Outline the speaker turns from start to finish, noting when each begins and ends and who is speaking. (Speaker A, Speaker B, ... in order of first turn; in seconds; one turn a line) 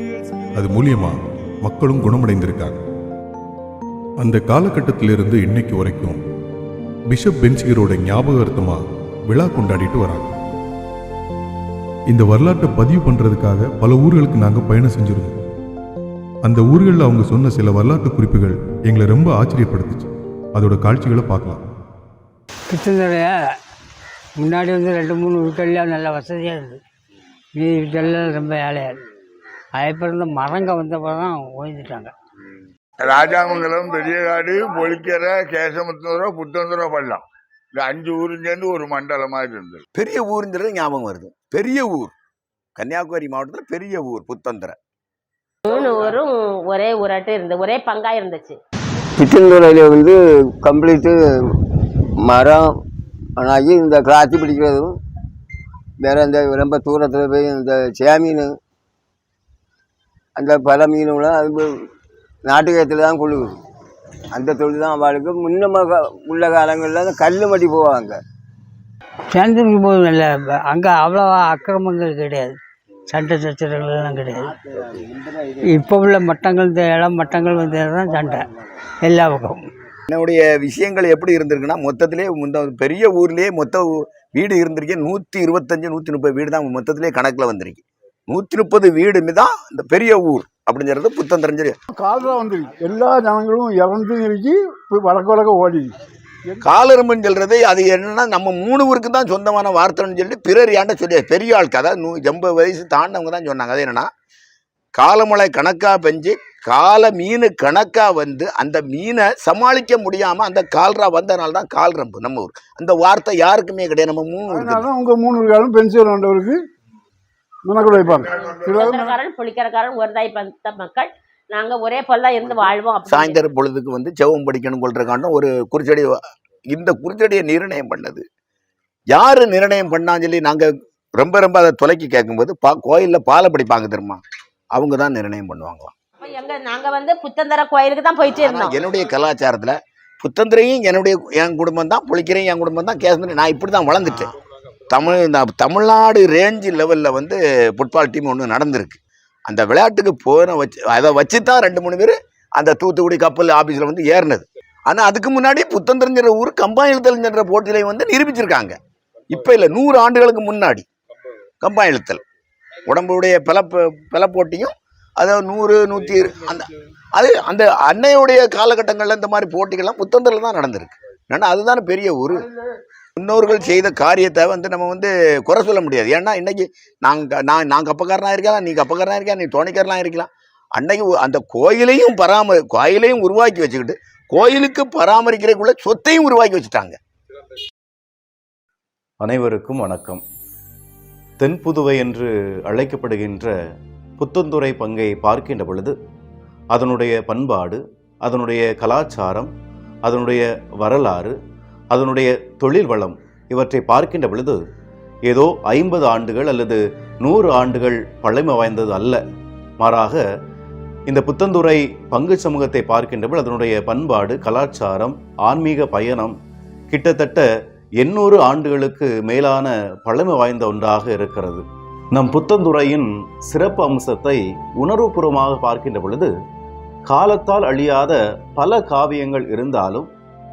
Speaker A: 0.5-2.8
Speaker A: 4.2-6.2
Speaker A: 7.1-10.4
Speaker A: 12.1-15.4
Speaker A: 16.4-21.6
Speaker B: 22.7-23.5
Speaker B: 24.4-26.8
Speaker B: 27.6-29.0
Speaker B: 29.8-32.1
Speaker C: 33.0-37.2
Speaker C: 37.8-39.8
Speaker D: 39.9-42.1
Speaker D: 42.8-44.8
Speaker E: 45.6-48.6
Speaker F: 49.2-51.2
Speaker F: 52.2-52.7
Speaker F: 53.4-55.0
Speaker F: 56.0-58.6
Speaker F: 60.4-61.7
Speaker F: 62.5-63.5
Speaker F: 64.3-68.2
Speaker B: 69.3-72.6
Speaker B: 73.1-74.5
Speaker F: 74.6-75.6
Speaker B: 75.7-78.5
Speaker B: 79.0-79.6
Speaker D: 80.1-91.8
Speaker G: 91.9-95.9
Speaker D: 96.6-104.1
Speaker D: 105.0-114.9
Speaker G: 114.5-116.6
Speaker G: 117.7-119.2
Speaker E: 118.3-123.5
Speaker D: 123.1-128.2
Speaker D: 129.1-134.2
Speaker D: 134.7-135.9
Speaker E: 136.2-138.7
Speaker D: 138.2-144.3
Speaker D: 144.9-158.8
Speaker D: 159.3-160.8
Speaker D: 161.6-162.2
Speaker D: 162.9-172.5
Speaker D: 173.2-187.0
Speaker H: 189.2-190.2
Speaker H: 191.4-193.5
Speaker H: 194.2-195.9
Speaker H: 196.7-199.5
Speaker H: 200.1-201.3
Speaker H: 201.9-204.6
Speaker H: 205.3-209.2
Speaker H: 209.8-210.2
Speaker H: 211.1-216.3
Speaker H: 216.9-217.4
Speaker H: 218.0-221.6
Speaker H: 222.1-226.3
Speaker H: 227.1-230.1